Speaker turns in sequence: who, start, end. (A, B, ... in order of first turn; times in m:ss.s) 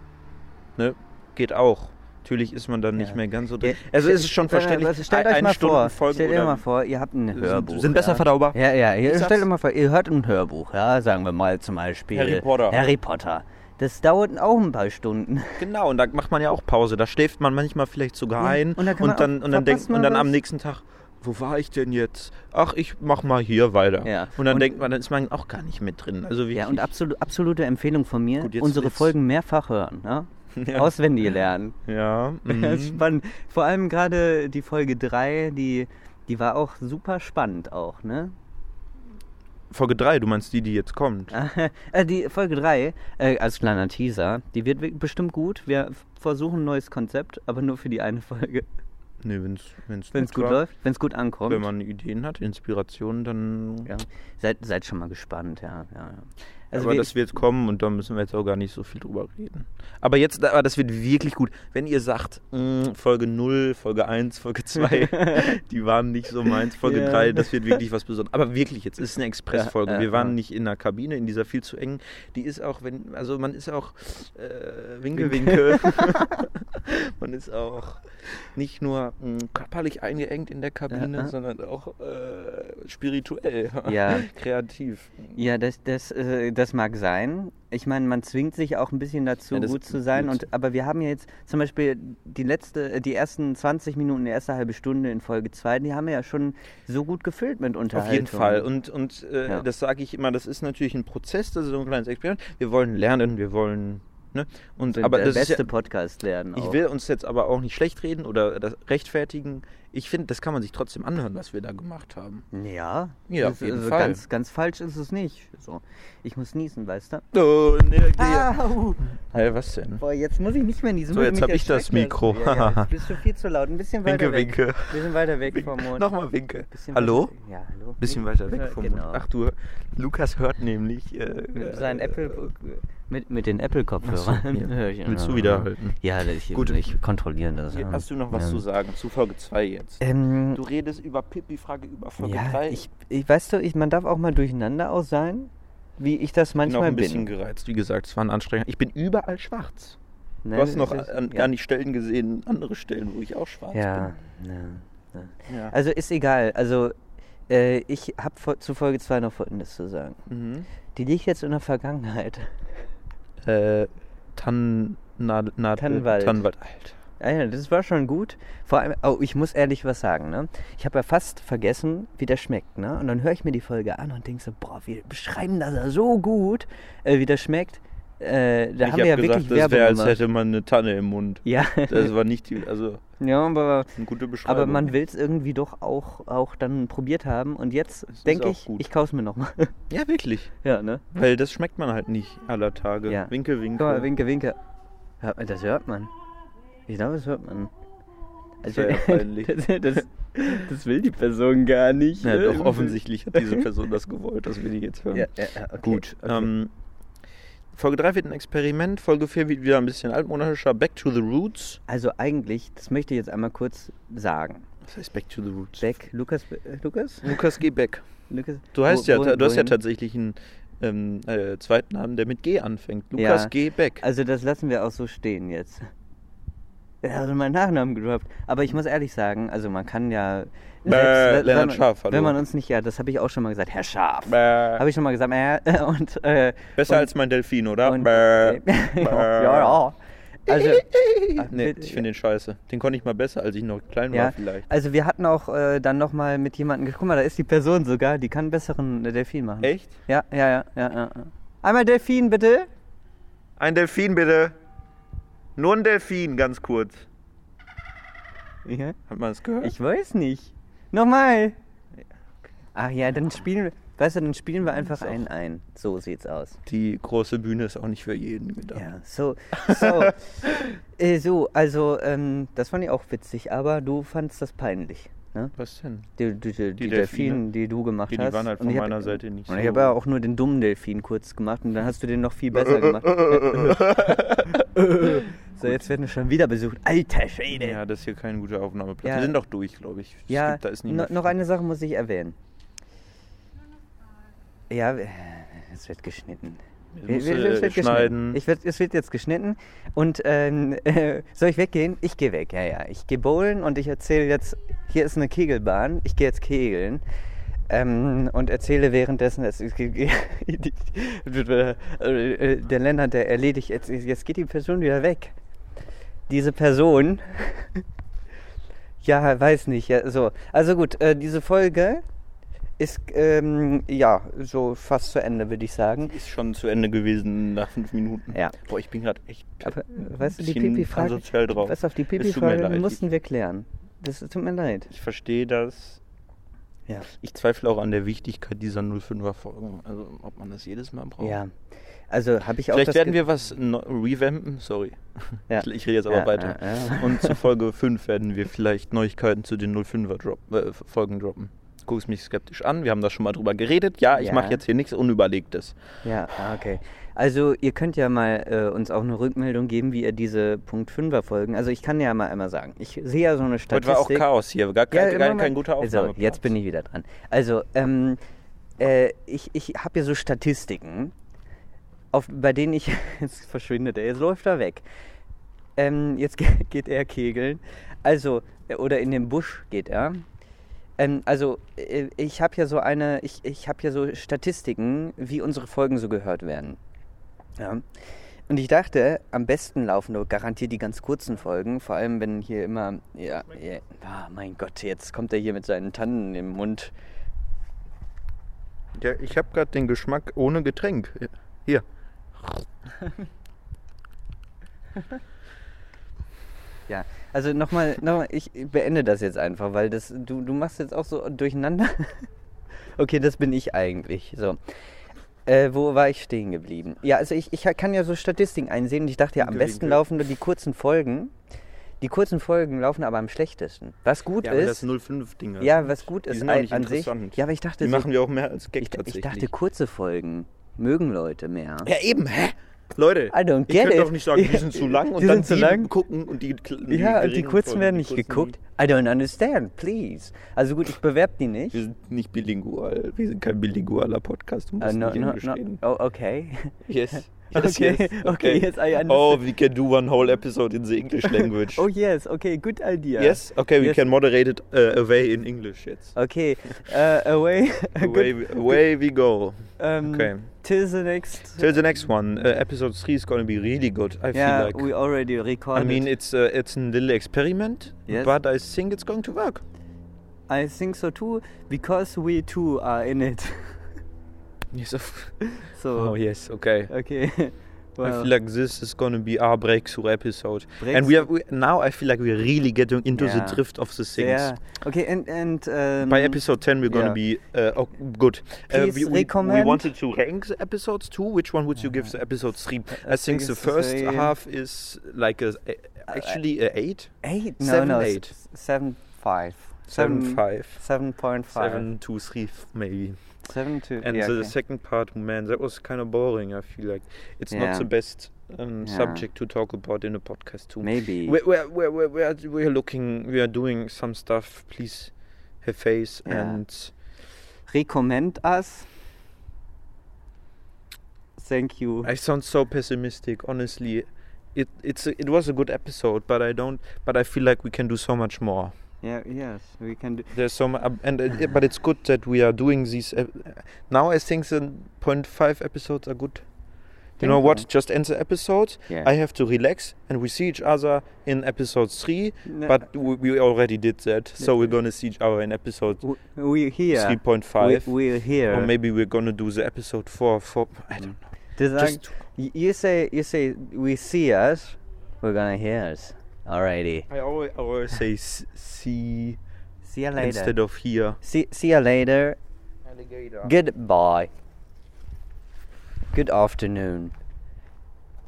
0:00.8-0:06.6 A
0:03.0-0:15.6 B
0:07.3-0:09.5 A
0:12.1-0:12.8 A
0:15.6-0:26.9 A
0:18.4-0:20.4 B
0:24.0-0:24.8 B
0:26.5-0:31.8 B
0:28.4-0:29.2 A
0:30.6-0:30.9 A
0:31.9-0:33.0 A
0:32.5-0:38.3 B
0:39.7-0:41.3 A
0:41.3-0:48.7 B
0:49.2-0:50.6 A
0:50.2-0:51.7 B
0:51.5-0:53.9 A
0:53.9-0:57.1 B
0:56.7-1:25.4 A
1:04.8-1:05.6 B
1:06.5-1:07.8 B
1:09.5-1:10.3 B
1:15.2-1:16.4 B
1:20.9-1:21.3 B
1:23.9-1:24.3 B
1:25.4-1:38.7 B
1:29.5-1:30.4 A
1:37.9-1:45.7 A
1:44.9-1:46.8 B
1:46.6-1:52.5 A
1:52.5-1:57.3 B
1:53.3-1:54.2 A
1:57.3-1:58.6 A
1:58.2-1:59.4 B
1:59.3-2:00.0 A
2:00.0-2:06.1 B
2:01.1-2:03.0 A
2:04.0-2:07.3 A
2:06.7-2:09.2 B
2:08.0-2:12.4 A
2:11.5-2:18.6 B
2:14.0-2:16.0 A
2:16.5-2:16.8 A
2:17.7-2:20.0 A
2:20.0-2:20.6 B
2:20.5-2:22.8 A
2:22.2-2:27.3 B
2:26.7-2:30.0 A
2:30.4-2:31.5 B
2:30.5-2:34.1 A
2:33.7-2:36.9 B
2:35.5-2:35.7 A
2:37.5-2:40.2 B
2:40.3-2:40.7 A
2:41.0-2:42.5 B
2:43.4-2:47.0 A
2:45.8-2:46.5 B
2:47.2-3:00.2 B
2:58.8-3:03.0 A
3:01.4-3:02.1 B
3:03.2-3:03.9 B
3:04.0-3:04.9 A
3:04.4-3:09.7 B
3:08.2-3:08.8 A
3:09.9-3:10.5 A
3:10.6-3:11.0 B
3:11.1-3:14.1 A
3:13.1-3:14.6 B
3:15.2-3:16.1 B
3:16.9-3:17.7 B
3:18.6-3:23.7 B
3:18.6-3:19.9 A
3:22.2-3:25.3 A
3:25.1-3:26.5 B
3:25.8-3:26.7 A
3:27.7-3:31.8 A
3:31.9-3:34.7 B
3:34.8-3:35.9 A
3:35.8-3:37.4 B
3:37.2-3:38.0 A
3:38.3-3:39.8 B
3:38.7-3:44.0 A
3:43.2-3:45.8 B
3:47.0-3:57.1 B
3:50.8-3:52.4 A
3:54.3-3:54.8 A
3:56.8-3:59.8 A
3:57.8-4:02.0 B
4:00.5-4:04.7 A
4:04.1-4:12.7 B
4:09.6-4:10.0 A
4:13.6-4:14.6 A
4:15.6-4:17.1 A
4:18.6-4:19.0 B
4:19.1-4:19.7 A
4:19.6-4:21.6 B
4:22.8-4:26.6 B
4:24.8-4:25.2 A
4:26.7-4:28.8 A
4:28.8-4:30.5 B
4:29.5-4:30.6 A
4:31.0-4:35.5 B
4:35.6-4:36.1 A
4:36.2-4:47.8 B
4:36.8-4:37.5 A
4:38.1-4:40.0 A
4:42.9-4:45.8 A
4:47.5-4:51.3 A
4:49.0-4:49.4 B
4:50.3-4:52.4 B
4:54.7-5:07.0 B
4:57.0-4:58.4 A
5:07.7-5:15.3 B
5:16.3-5:17.8 B
5:19.0-5:22.0 B
5:22.8-5:26.1 B
5:26.0-5:33.0 A
5:29.6-5:34.9 B
5:34.9-5:36.0 A
5:37.1-5:41.4 A
5:41.2-5:41.5 B
5:42.1-5:43.2 B
5:42.7-5:55.8 A
5:45.5-5:47.4 B
5:54.2-5:54.6 B
5:56.0-6:04.2 B
6:03.7-6:06.6 A
6:04.9-6:08.2 B
6:08.8-6:11.1 B
6:12.1-6:14.8 B
6:15.8-6:20.2 B
6:21.0-6:26.8 B
6:27.6-6:27.9 B
6:28.5-6:36.9 B
6:39.0-6:41.8 A
6:42.4-6:42.6 A
6:46.9-6:52.3 B
6:53.0-6:54.6 B
6:55.5-7:01.3 B
6:59.4-7:00.0 A
7:02.0-7:04.9 B
7:04.4-7:09.5 A
7:05.6-7:08.1 B
7:08.8-7:11.9 B
7:11.8-7:18.6 A
7:13.3-7:15.9 B
7:16.9-7:21.8 B
7:21.7-7:25.8 A
7:24.8-7:26.8 B
7:26.9-7:31.8 A
7:27.4-7:29.4 B
7:31.2-7:34.0 B
7:33.2-7:36.2 A
7:36.2-7:38.8 B
7:38.0-7:40.5 A
7:39.8-7:41.7 B
7:41.6-7:44.9 A
7:44.3-7:46.1 B
7:45.8-7:49.6 A
7:48.1-7:48.3 B
7:50.5-7:53.9 B
7:54.7-7:56.9 A
7:55.6-7:56.2 B
7:56.9-7:58.3 B
7:58.0-8:04.5 A
8:00.8-8:01.3 B
8:03.1-8:03.6 B
8:04.2-8:07.2 B
8:06.0-8:18.3 A
8:08.7-8:09.9 B
8:12.9-8:14.3 B
8:16.1-8:16.4 B
8:17.2-8:21.9 B
8:19.9-8:20.8 A
8:21.5-8:23.2 A
8:23.4-8:24.6 B
8:24.0-8:35.1 A
8:27.5-8:27.9 B
8:28.8-8:29.2 B
8:30.8-8:31.4 B
8:35.6-8:36.9 A
8:36.3-8:36.6 B
8:37.7-8:38.9 B
8:41.4-8:42.1 B
8:42.0-8:48.7 A
8:49.0-8:50.3 B
8:50.3-8:56.4 A
8:57.2-9:06.0 A
8:57.2-8:57.7 B
9:02.5-9:02.8 B
9:04.4-9:04.7 B
9:06.0-9:08.7 B
9:06.9-9:11.2 A
9:11.0-9:17.1 B
9:11.8-9:12.1 A
9:17.1-9:19.4 A
9:19.8-9:20.6 B
9:20.2-9:21.2 A
9:21.2-9:22.4 B
9:22.9-9:23.5 A
9:23.4-9:24.3 B
9:26.1-9:27.1 B